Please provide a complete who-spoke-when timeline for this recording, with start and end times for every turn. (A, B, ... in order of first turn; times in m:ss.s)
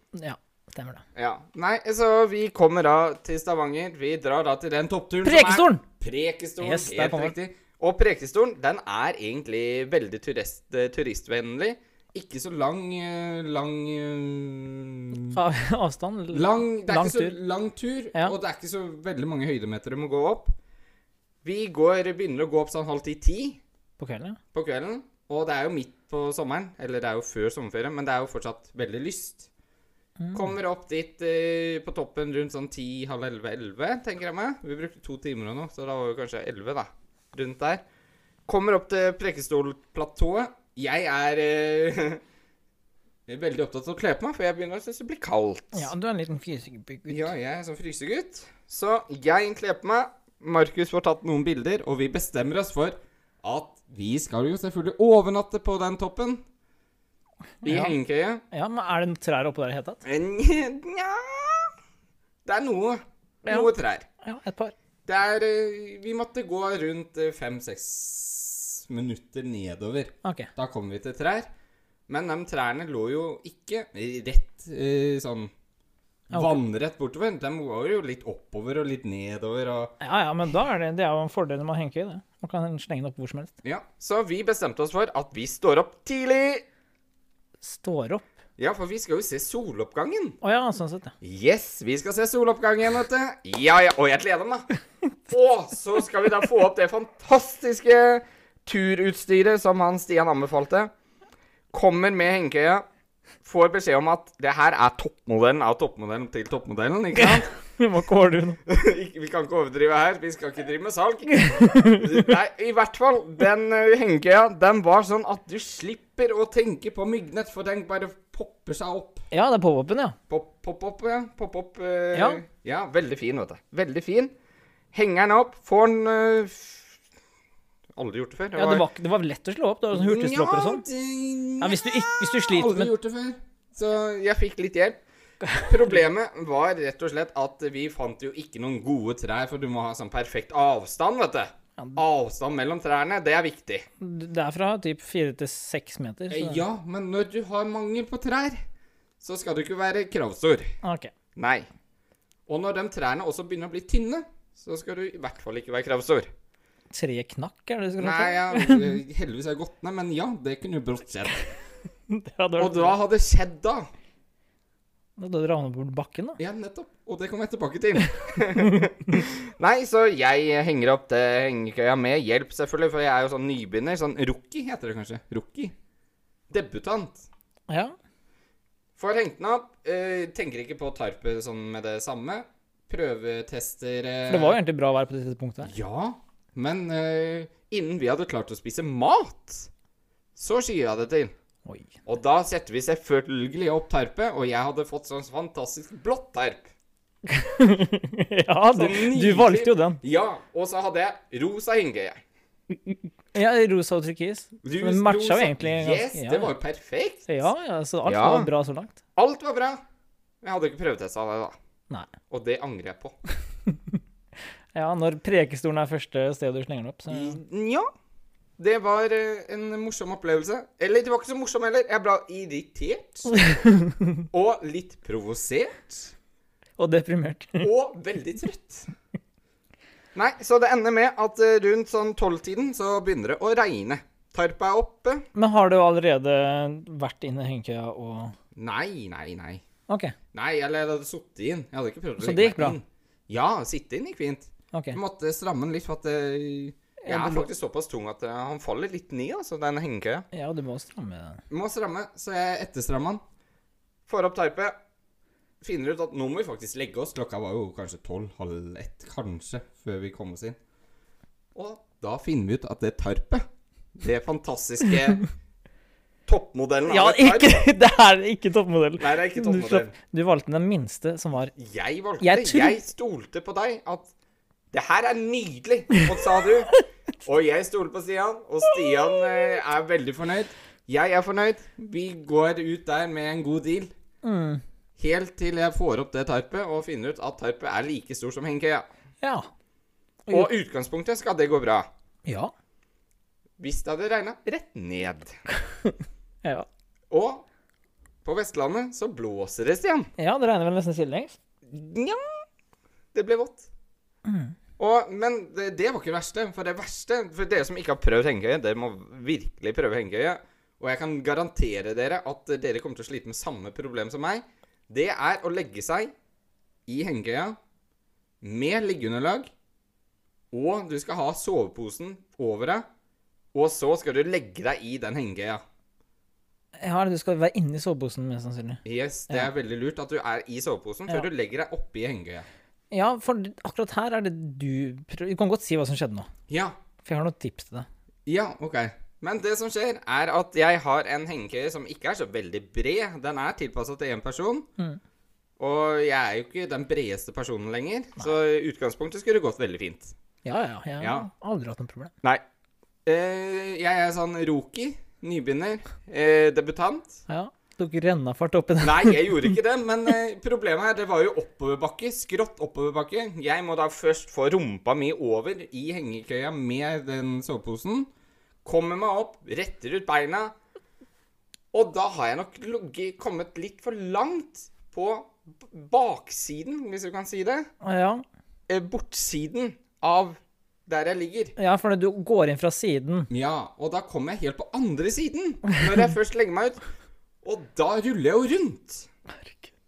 0:00.1-0:01.0 A
0:01.2-0:15.4 B
0:05.2-0:05.8 A
0:06.6-0:07.4 A
0:15.3-0:17.4 A
0:16.3-0:20.5 B
0:21.4-0:23.6 B
0:24.0-0:24.4 A
0:24.5-0:29.5 B
0:30.2-0:30.5 A
0:30.3-0:37.8 B
0:38.5-0:42.2 B
0:43.3-0:45.9 B
0:45.7-0:47.3 A
0:47.1-0:56.4 B
0:57.6-0:58.0 A
0:57.6-0:58.4 B
0:58.5-1:00.0 A
1:00.0-1:01.7 B
1:02.4-1:04.1 B
1:04.2-1:04.7 A
1:05.1-1:11.5 B
1:10.2-1:10.5 A
1:12.1-1:15.5 B
1:16.3-1:16.6 A
1:16.3-1:20.0 B
1:20.0-1:23.5 A
1:23.6-1:26.6 B
1:27.6-1:28.2 A
1:28.6-1:30.4 B
1:30.4-1:31.2 A
1:31.2-1:34.7 B
1:35.3-1:40.9 B
1:41.7-1:42.9 B
1:43.4-1:47.5 B
1:47.2-1:48.6 A
1:48.7-1:59.2 B
1:51.3-1:52.3 A
1:59.3-2:00.2 A
2:00.3-2:04.3 B
2:02.1-2:02.4 A
2:04.9-2:06.9 B
2:08.0-2:08.8 B
2:08.6-2:10.8 A
2:09.9-2:15.0 B
2:11.6-2:12.9 A
2:15.5-2:23.9 B
2:24.0-2:26.6 A
2:26.3-2:28.6 B
2:29.2-2:30.7 B
2:30.8-2:31.1 A
2:31.4-2:31.7 B
2:32.5-2:36.3 B
2:36.9-2:39.0 A
2:38.0-2:41.4 B
2:42.1-2:43.0 A
2:42.6-2:43.9 B
2:45.2-2:46.4 A
2:46.4-2:55.8 B
2:56.5-2:57.3 B
2:57.7-2:58.0 A
2:59.0-3:04.6 B
3:04.3-3:05.7 A
3:05.6-3:09.7 B
3:10.4-3:11.3 B
3:11.7-3:11.9 A
3:12.1-3:16.7 B
3:17.3-3:20.0 A
3:18.7-3:22.2 B
3:23.3-3:26.5 A
3:24.6-3:27.4 B
3:27.3-3:29.0 A
3:28.0-3:28.5 B
3:29.2-3:29.8 B
3:30.4-3:31.6 B
3:32.3-3:33.2 B
3:33.7-3:34.0 A
3:34.7-3:37.4 A
3:37.1-3:37.9 B
3:38.6-3:43.6 B
3:43.3-3:44.2 A
3:44.3-3:46.1 B
3:46.8-3:47.7 A
3:47.6-3:48.9 B
3:50.2-3:55.3 B
3:55.4-3:58.4 A
3:58.6-3:59.6 B
3:59.9-4:00.2 A
4:00.3-4:10.3 B
4:02.2-4:02.8 A
4:04.7-4:05.0 A
4:07.0-4:07.5 A
4:10.3-4:11.4 A
4:11.5-4:13.2 B
4:14.1-4:14.8 B
4:15.6-4:20.6 B
4:21.6-4:23.4 B
4:24.0-4:25.3 B
4:26.3-4:27.7 B
4:26.9-4:31.5 A
4:29.0-4:29.9 B
4:31.6-4:34.1 B
4:32.2-4:32.8 A
4:34.7-4:43.9 B
4:44.2-4:44.6 A
4:45.0-4:48.9 B
4:49.2-4:49.5 A
4:50.3-4:51.9 B
4:52.2-4:52.5 A
4:53.6-4:55.4 B
4:55.7-4:56.7 A
4:57.1-4:57.4 B
4:58.2-5:00.1 B
5:00.2-5:01.4 A
5:01.7-5:02.4 B
5:03.1-5:03.7 B
5:04.3-5:04.5 A
5:04.8-5:16.1 B
5:16.9-5:17.6 B
5:18.4-5:19.5 B
5:20.5-5:22.8 B
5:23.5-5:25.6 B
5:26.8-5:29.5 A
5:28.8-5:32.5 B
5:32.9-5:36.3 A
5:36.5-5:36.8 B
5:37.0-5:37.9 A
5:38.3-5:44.7 B
5:45.6-5:50.2 B
5:50.4-5:52.1 A
5:51.0-5:51.3 B
5:53.0-5:57.2 B
5:57.3-5:59.5 A
5:58.8-6:08.1 B
6:08.6-6:10.6 B
6:11.7-6:17.7 B
6:17.8-6:18.2 A
6:18.7-6:21.5 B
6:21.6-6:23.3 A
6:23.3-6:26.8 B
6:27.4-6:29.1 B
6:29.4-6:29.7 A